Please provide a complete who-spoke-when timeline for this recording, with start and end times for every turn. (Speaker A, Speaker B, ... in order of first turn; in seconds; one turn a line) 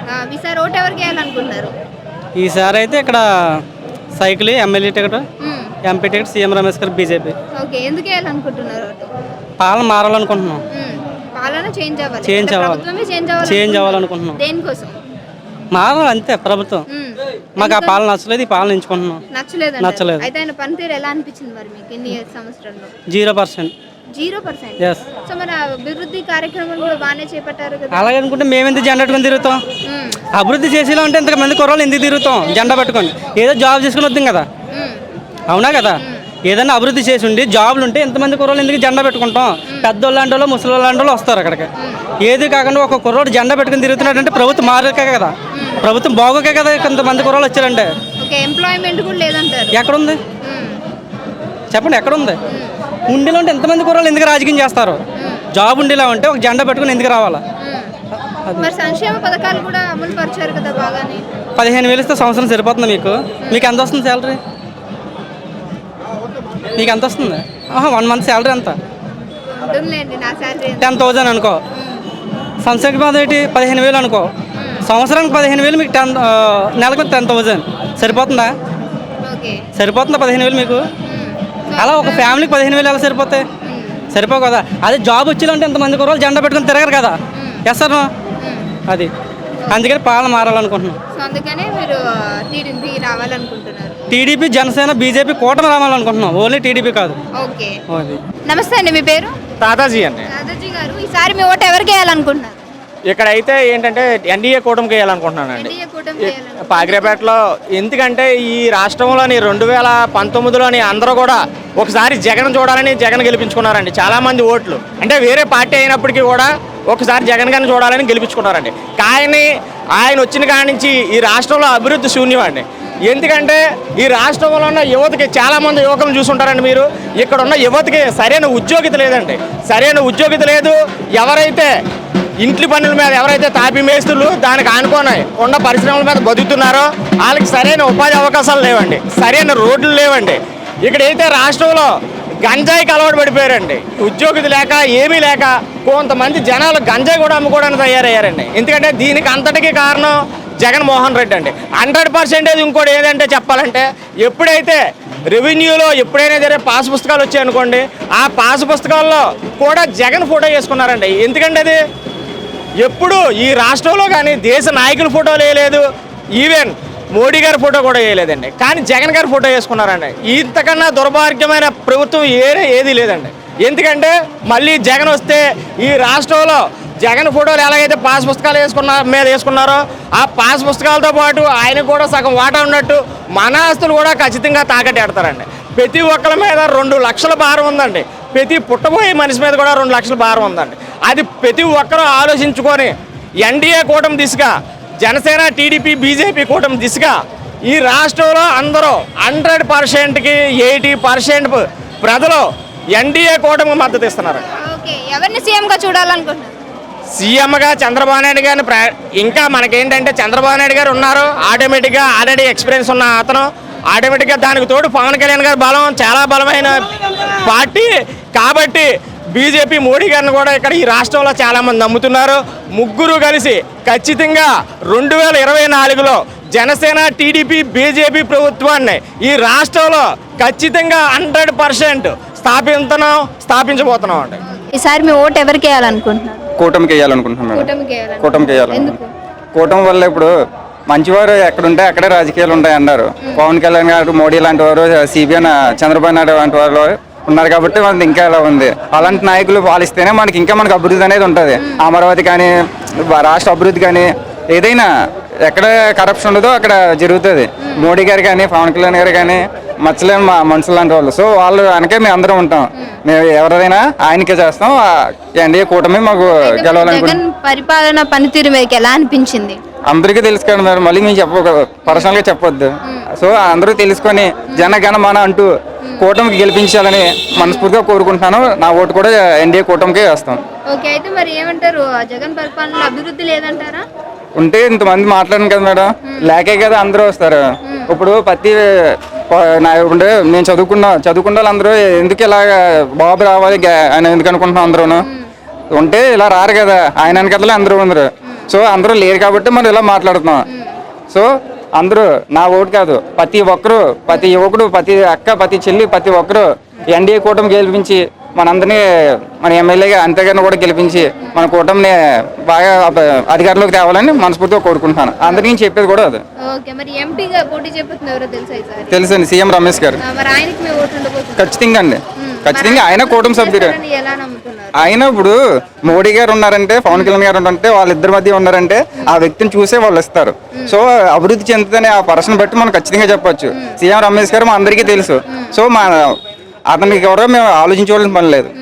Speaker A: 0.1-1.7
Speaker B: 2.4-3.2
Speaker B: 4.2-5.2
Speaker A: 5.4-5.7
Speaker B: 5.8-7.3
Speaker A: 7.6-9.1
Speaker B: 9.6-10.6
Speaker A: 10.7-14.9
Speaker B: 12.2-12.8
Speaker B: 13.4-14.4
Speaker B: 15.7-16.9
Speaker A: 16.9-18.0
Speaker B: 17.6-19.2
Speaker A: 19.3-22.9
Speaker B: 19.8-20.3
Speaker B: 23.1-23.7
Speaker A: 24.1-28.1
Speaker B: 24.8-25.1
Speaker B: 27.9-29.6
Speaker A: 29.9-30.2
Speaker B: 30.3-34.5
Speaker A: 34.7-35.0
Speaker B: 35.5-41.7
Speaker A: 36.0-36.2
Speaker A: 41.8-42.0
Speaker B: 42.2-47.9
Speaker A: 45.5-45.8
Speaker A: 48.2-49.8
Speaker B: 49.7-50.2
Speaker A: 50.4-50.8
Speaker B: 51.7-52.4
Speaker A: 52.5-52.8
Speaker B: 53.1-55.0
Speaker A: 55.2-55.5
Speaker B: 55.5-57.4
Speaker A: 57.6-57.9
Speaker A: 58.6-61.2
Speaker B: 61.6-64.4
Speaker B: 66.8-68.8
Speaker A: 69.5-71.0
Speaker B: 70.8-71.6
Speaker A: 71.7-72.0
Speaker B: 72.6-74.3
Speaker A: 74.5-74.8
Speaker B: 74.8-78.5
Speaker A: 79.2-79.6
Speaker B: 79.7-80.8
Speaker A: 81.0-82.5
Speaker B: 81.8-83.5
Speaker A: 83.6-84.0
Speaker B: 84.1-88.1
Speaker A: 87.3-87.6
Speaker A: 88.4-88.7
Speaker B: 89.7-91.0
Speaker A: 91.1-94.0
Speaker B: 94.1-97.2
Speaker A: 97.3-97.7
Speaker B: 97.9-98.2
Speaker A: 98.5-99.3
Speaker C: 99.6-100.3
Speaker A: 100.3-102.6
Speaker C: 103.1-105.7
Speaker A: 105.5-107.3
Speaker C: 106.7-131.7
Speaker C: 132.4-141.9
Speaker C: 142.5-150.1
Speaker C: 150.7-154.8
Speaker C: 155.4-161.8
Speaker C: 162.8-165.8
Speaker C: 166.4-192.9
Speaker C: 193.5-194.5
Speaker C: 195.1-197.2
Speaker C: 197.7-202.5
Speaker C: 203.0-204.4
Speaker A: 204.6-206.5
Speaker C: 207.2-216.9
Speaker C: 217.4-234.4
Speaker A: 234.4-236.5
Speaker D: 236.6-237.7
Speaker A: 237.5-239.1
Speaker D: 238.2-239.0
Speaker D: 239.5-240.3
Speaker D: 240.9-252.5
Speaker D: 253.1-254.9
Speaker D: 255.4-264.8
Speaker D: 265.3-267.2
Speaker A: 266.4-269.6
Speaker D: 269.9-280.4
Speaker A: 277.4-277.7
Speaker A: 280.7-283.8
Speaker D: 284.4-288.6
Speaker A: 286.0-286.3
Speaker A: 287.6-287.9
Speaker D: 289.3-295.1
Speaker D: 295.7-300.4
Speaker A: 300.5-300.8
Speaker D: 301.1-308.8
Speaker D: 309.4-316.2
Speaker A: 316.4-319.0
Speaker D: 318.9-320.0
Speaker A: 320.0-321.5
Speaker D: 321.4-323.8
Speaker A: 322.1-324.8
Speaker D: 324.8-336.1
Speaker A: 326.9-327.2
Speaker A: 335.3-335.5
Speaker D: 336.7-338.5